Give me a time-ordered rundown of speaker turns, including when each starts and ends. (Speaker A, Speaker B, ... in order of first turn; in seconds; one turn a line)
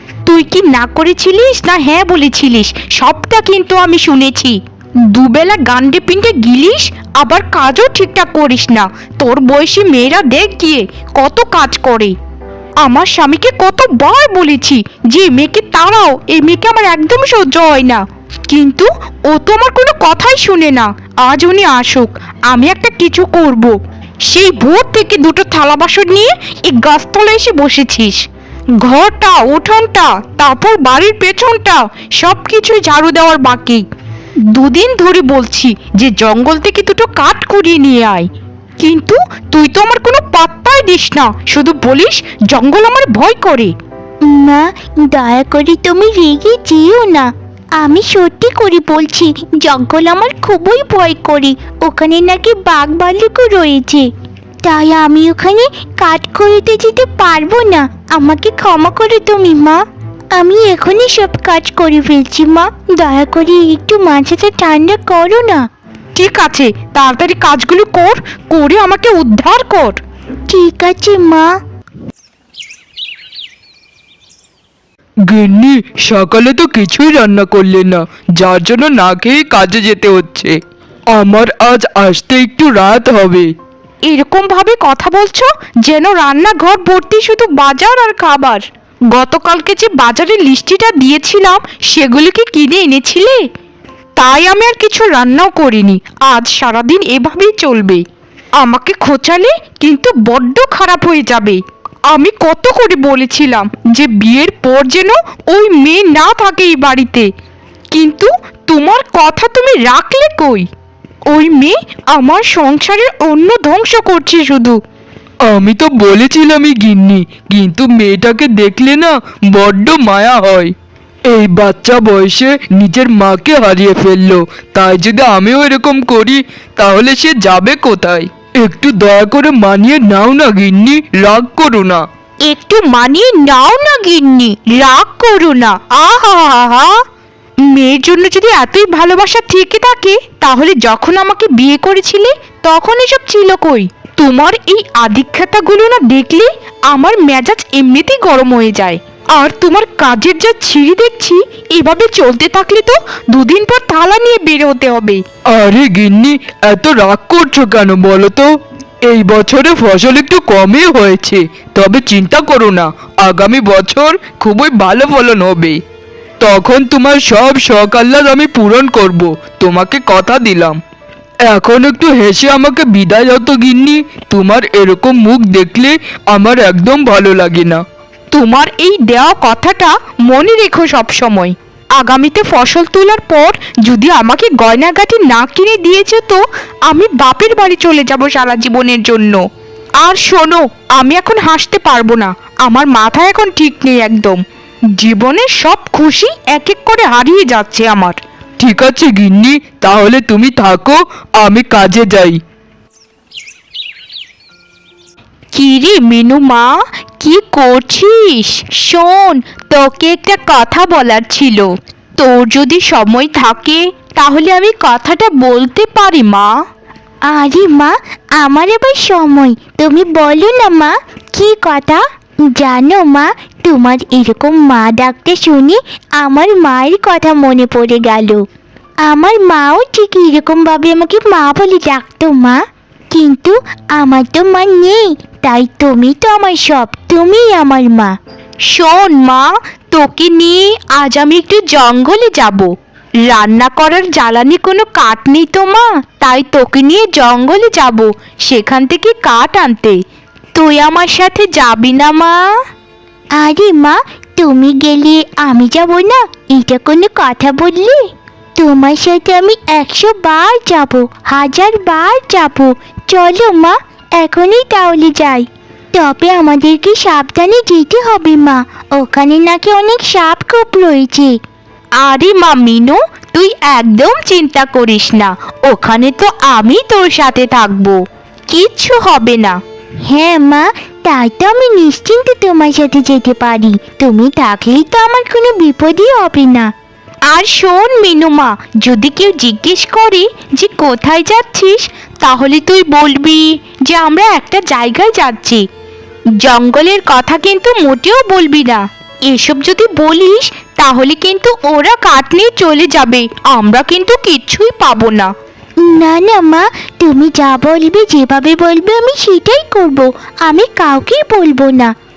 Speaker A: 0.3-12.2
Speaker A: 12.8-23.8
Speaker A: 24.3-28.2
Speaker A: 28.8-33.9
Speaker A: 34.5-38.3
Speaker A: 38.8-43.7
Speaker B: 44.2-54.1
Speaker B: 54.6-59.8
Speaker B: 60.3-65.7
Speaker A: 66.2-70.0
Speaker B: 70.5-71.5
Speaker C: 75.3-80.6
Speaker C: 81.1-83.5
Speaker A: 84.1-93.5
Speaker A: 94.2-98.0
Speaker A: 98.6-107.3
Speaker A: 107.9-110.7
Speaker A: 111.3-114.8
Speaker C: 115.5-120.7
Speaker C: 121.3-132.0
Speaker A: 132.5-137.0
Speaker A: 137.6-155.2
Speaker C: 155.5-158.5
Speaker C: 159.1-165.8
Speaker C: 166.4-170.8
Speaker C: 171.5-177.8
Speaker A: 178.3-189.4
Speaker A: 190.0-194.4
Speaker A: 195.0-198.2
Speaker C: 198.6-202.4
Speaker A: 205.5-216.6
Speaker B: 217.2-228.4
Speaker B: 229.0-232.6
Speaker B: 233.1-238.2
Speaker A: 238.7-242.7
Speaker A: 243.2-250.0
Speaker A: 250.5-252.5
Speaker B: 253.4-258.0
Speaker B: 258.6-271.4
Speaker A: 272.0-278.0
Speaker A: 278.5-279.6
Speaker B: 280.1-286.7
Speaker A: 287.3-295.6
Speaker A: 296.4-305.3
Speaker B: 305.8-311.9